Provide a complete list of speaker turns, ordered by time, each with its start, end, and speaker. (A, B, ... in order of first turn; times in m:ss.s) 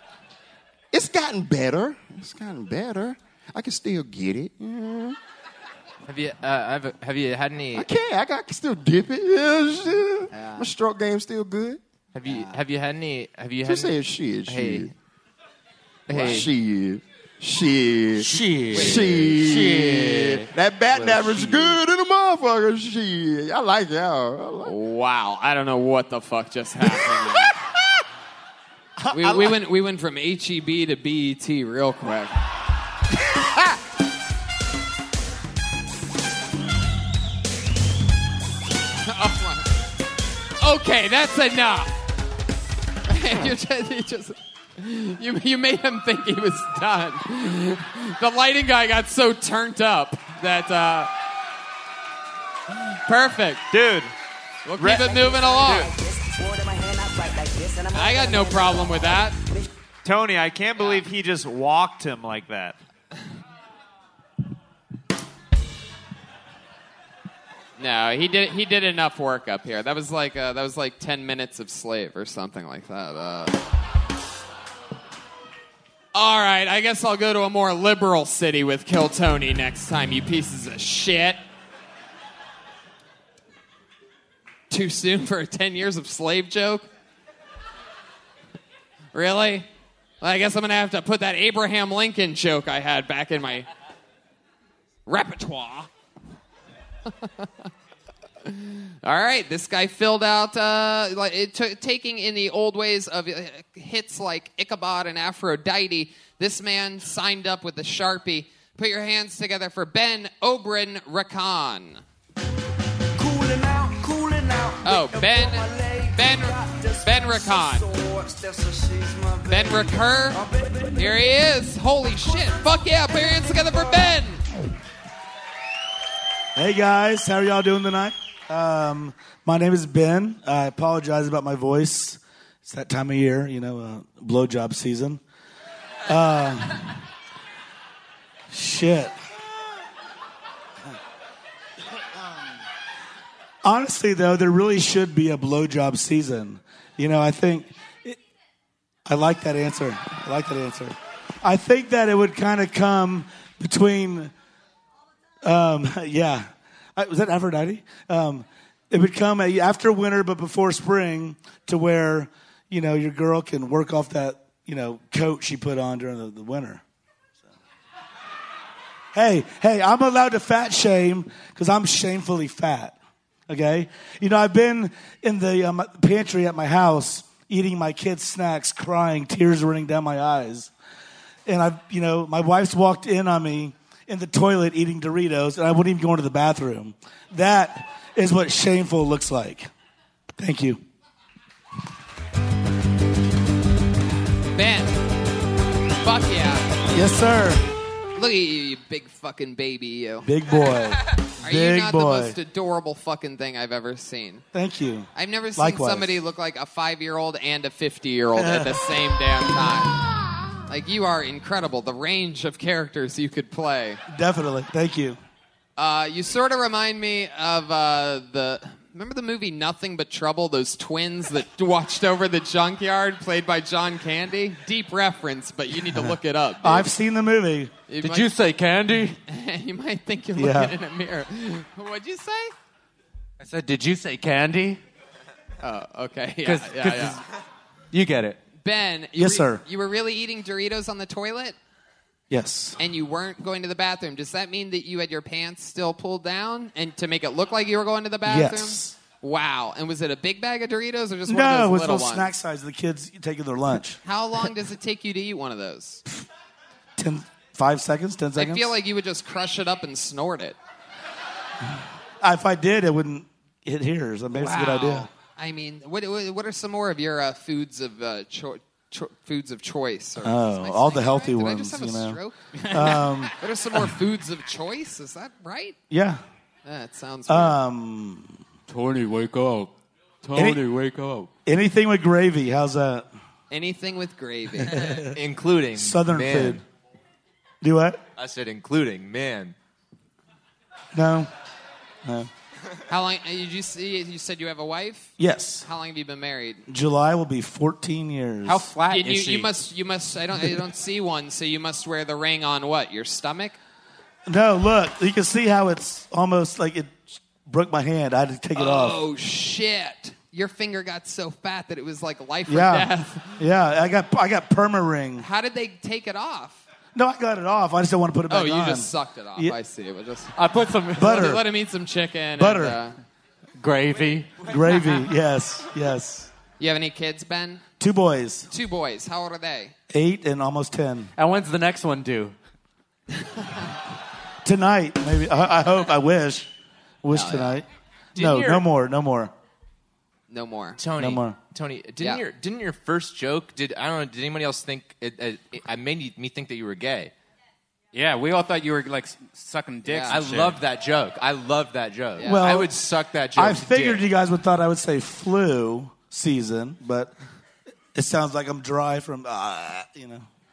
0:00.9-0:05.2 A
0:06.0-0:07.9 B
0:07.7-0:11.8 A
0:10.3-0:10.6 C
0:12.1-0:14.0 B
0:12.2-0:12.5 C
0:13.6-0:14.9 A
0:14.5-0:14.9 B
0:16.1-0:16.5 B
0:16.1-0:24.7 A
0:18.2-0:21.8 D
0:18.7-0:19.0 C
0:24.6-0:27.5 C
0:29.0-0:29.5 E
0:29.1-0:32.3 C
0:39.0-0:39.7 C
0:40.6-0:41.9 C
0:43.1-0:51.1 C
0:53.0-0:53.6 C
0:53.7-0:54.1 F
0:54.6-0:55.9 C
0:54.8-0:55.0 F
0:54.9-0:59.7 G
0:57.9-0:59.4 C
1:00.0-1:02.8 F
1:00.8-1:01.0 C
1:07.8-1:13.6 C
1:16.1-1:21.4 C
1:24.7-1:26.9 C
1:29.1-1:29.7 C
1:30.2-1:33.7 C
1:35.0-1:35.9 C
1:38.4-1:52.0 C
1:53.2-2:01.2 G
1:54.8-1:57.9 C
1:59.5-2:00.4 C
2:00.9-2:04.4 C
2:02.3-2:04.1 G
2:06.6-2:15.2 E
2:16.0-2:16.9 E
2:18.5-2:19.1 E
2:23.6-2:28.2 E
2:29.0-2:34.3 E
2:35.4-2:46.8 E
2:49.1-2:53.0 E
2:53.5-3:00.7 E
3:01.4-3:09.7 E
3:10.4-3:10.8 E
3:14.5-3:15.0 C
3:16.0-3:16.8 C
3:16.9-3:17.6 E
3:18.1-3:20.3 C
3:20.2-3:22.4 E
3:21.4-3:24.4 C
3:24.5-3:26.2 E
3:25.1-3:30.0 C
3:28.4-3:28.8 E
3:30.6-3:34.0 C
3:34.1-3:35.2 E
3:35.8-3:46.9 C
3:45.9-3:47.7 E
3:47.9-3:48.3 C
3:48.0-3:49.2 H
3:49.3-3:52.5 C
3:50.4-3:50.7 E
3:53.4-3:54.8 H
3:55.6-3:57.2 C
3:56.4-3:57.2 H
3:57.9-3:58.4 H
3:58.6-4:01.6 C
3:59.2-3:59.6 E
4:02.3-4:02.8 E
4:02.8-4:12.3 C
4:08.2-4:09.0 E
4:11.2-4:14.0 E
4:14.0-4:16.0 C
4:17.0-4:18.7 E
4:18.3-4:20.6 C
4:22.2-4:25.1 E
4:24.3-4:35.8 C
4:30.2-4:32.2 E
4:32.7-4:33.9 E
4:35.9-4:36.2 E
4:36.6-4:37.6 C
4:37.3-4:38.4 E
4:40.3-4:40.7 E
4:41.4-4:43.0 E
4:43.5-4:45.0 C
4:44.6-4:45.1 E
4:45.1-4:46.6 B
4:45.7-4:46.6 E
4:47.6-4:48.0 E
4:48.2-4:49.5 B
4:50.9-4:51.3 E
4:52.9-4:56.6 C
4:55.2-4:55.6 E
4:56.7-4:58.6 E
4:58.4-4:59.5 D
4:58.9-5:03.6 C
5:04.3-5:09.0 E
5:08.5-5:13.4 C
5:12.5-5:15.3 E
5:15.2-5:16.6 C
5:16.9-5:19.5 E
5:18.3-5:20.3 C
5:20.4-5:21.1 H
5:21.0-5:21.4 E
5:21.0-5:22.9 C
5:22.4-5:22.8 E
5:23.6-5:24.3 H
5:24.4-5:26.3 E
5:26.6-5:27.7 C
5:27.8-5:28.5 E
5:28.5-5:29.7 C
5:29.9-5:31.1 E
5:31.2-5:32.3 H
5:34.4-5:36.5 E
5:37.0-5:39.3 E
5:37.1-5:37.6 C
5:38.2-5:38.6 B
5:40.3-5:40.8 C
5:40.8-5:47.1 B
5:41.0-5:41.4 E
5:47.9-5:50.6 D
5:49.8-5:50.2 C
5:50.1-5:54.1 B
5:52.2-5:52.6 C
5:52.2-5:52.7 E
5:53.3-5:57.1 E
5:57.9-6:00.2 E